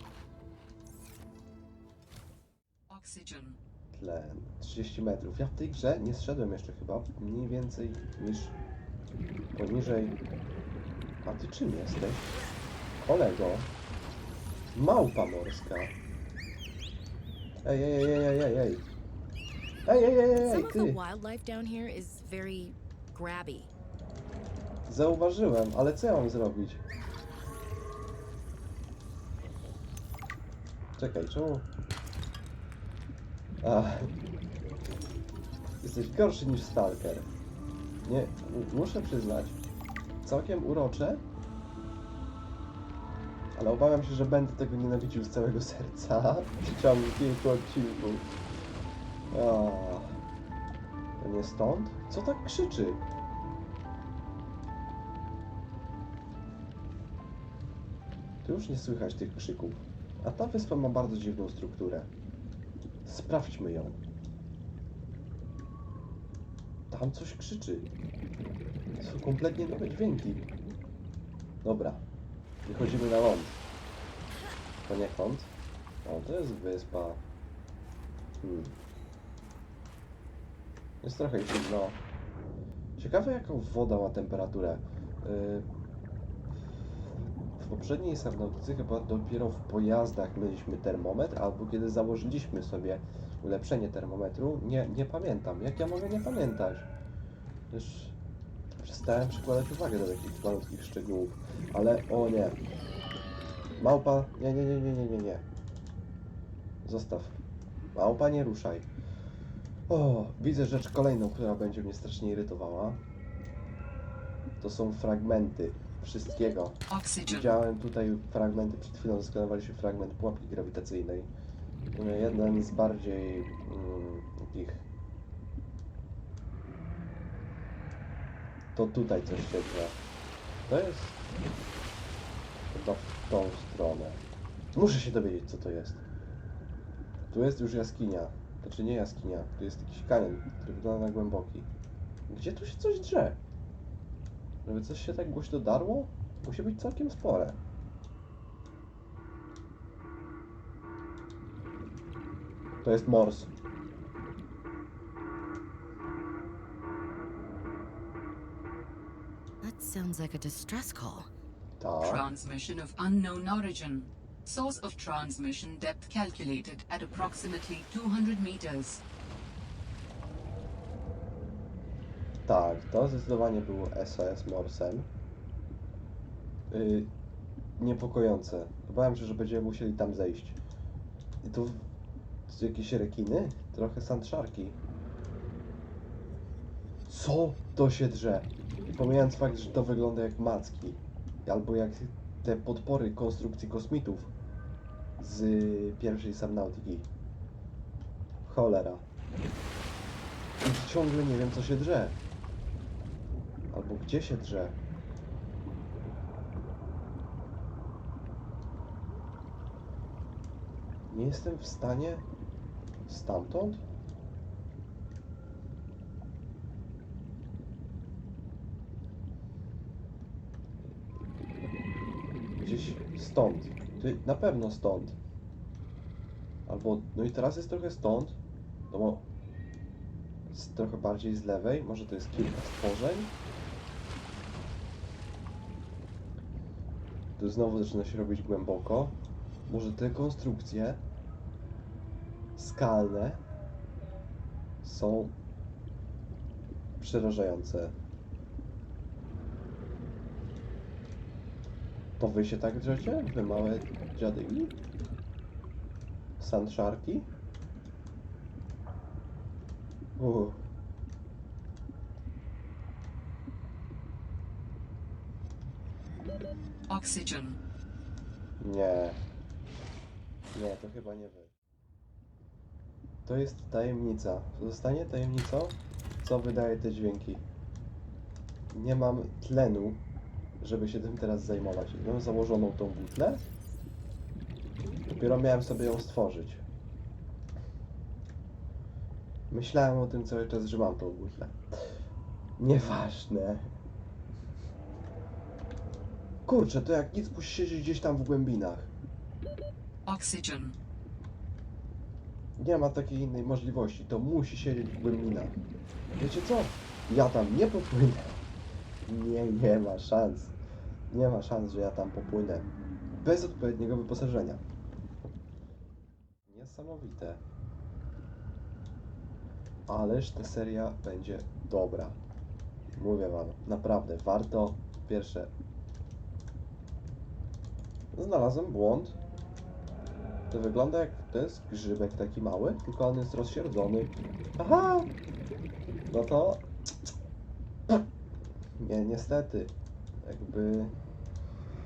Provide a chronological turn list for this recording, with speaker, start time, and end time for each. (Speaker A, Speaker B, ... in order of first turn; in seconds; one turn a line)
Speaker A: 2.9-3.6
Speaker B: 3.9-8.6
Speaker B: 9.5-10.2
Speaker B: 11.2-12.4
Speaker B: 13.0-13.7
Speaker B: 14.7-15.9
Speaker B: 17.6-18.9
Speaker B: 19.9-21.0
Speaker C: 20.4-23.7
Speaker B: 24.9-26.8
Speaker B: 31.0-31.7
Speaker B: 33.6-34.1
Speaker B: 35.8-37.3
Speaker B: 38.0-39.6
Speaker B: 40.2-41.2
Speaker B: 43.5-48.4
Speaker B: 49.3-50.2
Speaker B: 51.2-53.0
Speaker B: 58.4-62.1
Speaker B: 63.0-64.0
Speaker B: 66.9-67.9
Speaker B: 69.0-70.5
Speaker B: 71.6-72.0
Speaker B: 72.6-73.6
Speaker B: 74.9-75.5
Speaker B: 76.0-77.2
Speaker B: 78.4-78.8
Speaker B: 81.0-82.0
Speaker B: 83.0-85.7
Speaker B: 87.6-96.9
Speaker B: 97.7-98.2
Speaker B: 98.8-102.6
Speaker B: 103.8-105.5
Speaker B: 106.8-107.4
Speaker B: 107.9-108.9
Speaker B: 109.9-113.0
Speaker B: 114.6-121.3
Speaker A: 116.9-117.6
Speaker B: 121.9-124.8
Speaker B: 128.8-130.0
Speaker B: 130.7-131.2
Speaker B: 132.7-136.0
Speaker B: 137.3-141.7
Speaker B: 142.3-143.4
Speaker B: 144.7-147.6
Speaker B: 152.8-153.5
Speaker C: 159.6-161.3
Speaker B: 161.8-162.2
Speaker A: 162.0-169.0
Speaker B: 172.5-175.1
Speaker B: 176.7-177.1
Speaker B: 177.8-180.6
Speaker B: 181.4-181.9
Speaker B: 182.5-184.8
Speaker B: 187.1-194.3
Speaker B: 195.2-197.1
Speaker B: 198.4-199.1
Speaker B: 200.6-202.2
Speaker B: 203.7-204.8
Speaker B: 211.1-212.3
Speaker B: 213.1-213.8
Speaker B: 222.6-225.2
Speaker B: 226.7-228.4
Speaker B: 228.9-229.3
Speaker B: 230.5-233.3
Speaker B: 237.4-241.0
Speaker B: 242.6-243.4
Speaker B: 244.8-245.4
Speaker B: 247.0-248.0
Speaker B: 252.2-254.8
Speaker B: 256.4-257.3
Speaker B: 260.2-260.6
Speaker A: 266.9-267.6
Speaker B: 268.6-269.2
Speaker B: 270.5-271.5
Speaker B: 273.2-277.5
Speaker B: 278.7-280.0
Speaker B: 280.6-283.4
Speaker B: 285.1-286.7
Speaker B: 289.5-291.6
Speaker B: 292.6-293.7
Speaker B: 296.5-298.9
Speaker A: 300.1-300.8
Speaker B: 302.6-305.6
Speaker B: 306.2-308.4
Speaker B: 309.0-310.6
Speaker B: 311.1-314.6
Speaker B: 316.5-317.4
Speaker B: 319.9-322.2
Speaker B: 322.9-325.5
Speaker B: 328.1-329.2
Speaker B: 330.5-335.1
Speaker B: 336.1-337.1
Speaker B: 338.8-341.0